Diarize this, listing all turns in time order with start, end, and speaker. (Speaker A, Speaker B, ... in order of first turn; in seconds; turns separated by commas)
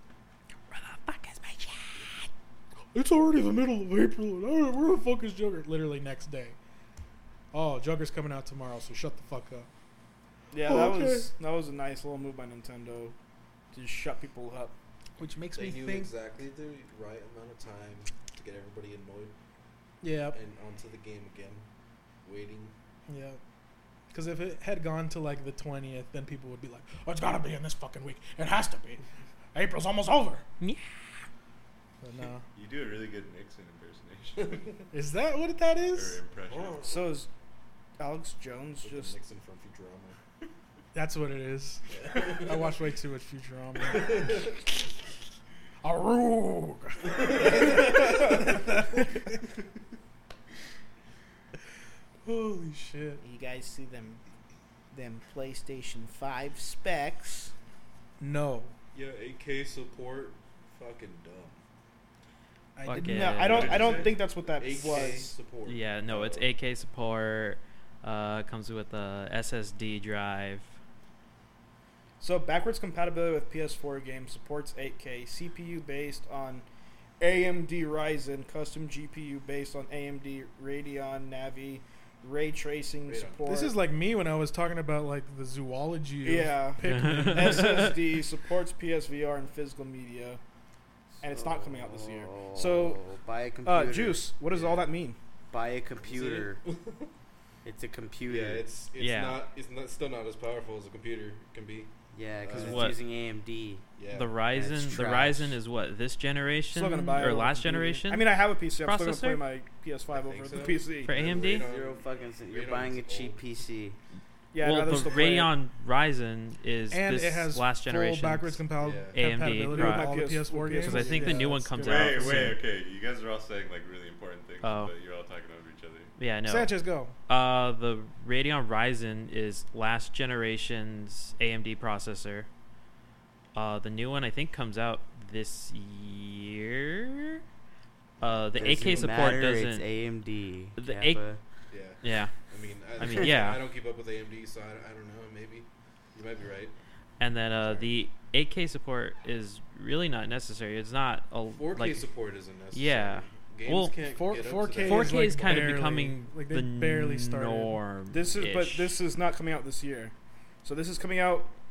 Speaker A: 0.7-2.2, Speaker B: 2.9-6.5, Speaker B: 7.5-9.7, Speaker C: 10.5-13.1, Speaker B: 10.6-11.3, Speaker C: 13.7-14.7, Speaker B: 15.2-16.1, Speaker D: 15.5-19.3, Speaker B: 20.0-20.4, Speaker D: 20.3-21.7, Speaker D: 22.2-22.7, Speaker B: 23.1-23.4, Speaker B: 24.1-29.0, Speaker B: 29.5-30.4, Speaker A: 30.6-30.9, Speaker B: 32.0-32.4, Speaker E: 32.5-34.8, Speaker D: 34.4-34.7, Speaker B: 34.9-36.2, Speaker E: 35.9-36.9, Speaker D: 36.5-37.2, Speaker C: 36.8-37.3, Speaker C: 38.0-39.1, Speaker D: 38.8-40.2, Speaker B: 40.9-44.7, Speaker D: 42.1-42.6, Speaker D: 43.9-44.5, Speaker B: 45.8-49.4, Speaker D: 47.3-48.3, Speaker B: 52.2-53.2, Speaker C: 53.2-54.2, Speaker C: 54.9-57.5, Speaker B: 58.2-58.7, Speaker D: 58.9-61.6, Speaker B: 62.8-63.4, Speaker A: 62.9-64.1, Speaker C: 62.9-65.4, Speaker D: 63.4-66.5, Speaker E: 63.5-64.1, Speaker A: 65.6-70.8, Speaker C: 72.2-76.7, Speaker C: 77.2-83.7, Speaker D: 83.1-83.4, Speaker B: 83.5-87.9, Speaker C: 86.2-90.4, Speaker A: 86.8-87.9, Speaker F: 91.2-94.3, Speaker C: 91.2-93.0, Speaker C: 93.6-95.2, Speaker D: 94.5-94.9, Speaker F: 95.5-96.6, Speaker D: 96.0-97.1, Speaker F: 97.6-98.7, Speaker D: 98.2-103.0, Speaker A: 98.9-99.4, Speaker F: 102.1-103.8, Speaker A: 102.5-103.0, Speaker D: 104.0-104.3, Speaker A: 104.1-109.4, Speaker F: 104.5-105.6, Speaker C: 106.7-111.2, Speaker D: 110.1-113.4, Speaker A: 111.0-111.7, Speaker F: 111.3-114.0, Speaker C: 114.5-115.5, Speaker A: 114.6-122.6, Speaker B: 116.9-122.5, Speaker D: 118.8-119.2, Speaker C: 119.7-121.6, Speaker E: 121.8-126.1, Speaker A: 124.6-124.9, Speaker A: 126.2-126.7, Speaker B: 126.5-127.1, Speaker A: 127.3-132.5, Speaker A: 133.5-137.4, Speaker A: 138.2-139.8, Speaker D: 138.5-139.4, Speaker F: 138.5-141.4, Speaker A: 140.8-141.2, Speaker D: 141.7-146.8, Speaker A: 142.0-142.4, Speaker A: 143.0-143.6, Speaker A: 147.2-152.1, Speaker D: 147.6-147.9, Speaker D: 151.5-155.8, Speaker A: 152.7-153.9, Speaker B: 154.1-157.8, Speaker A: 154.8-158.9, Speaker C: 158.1-161.5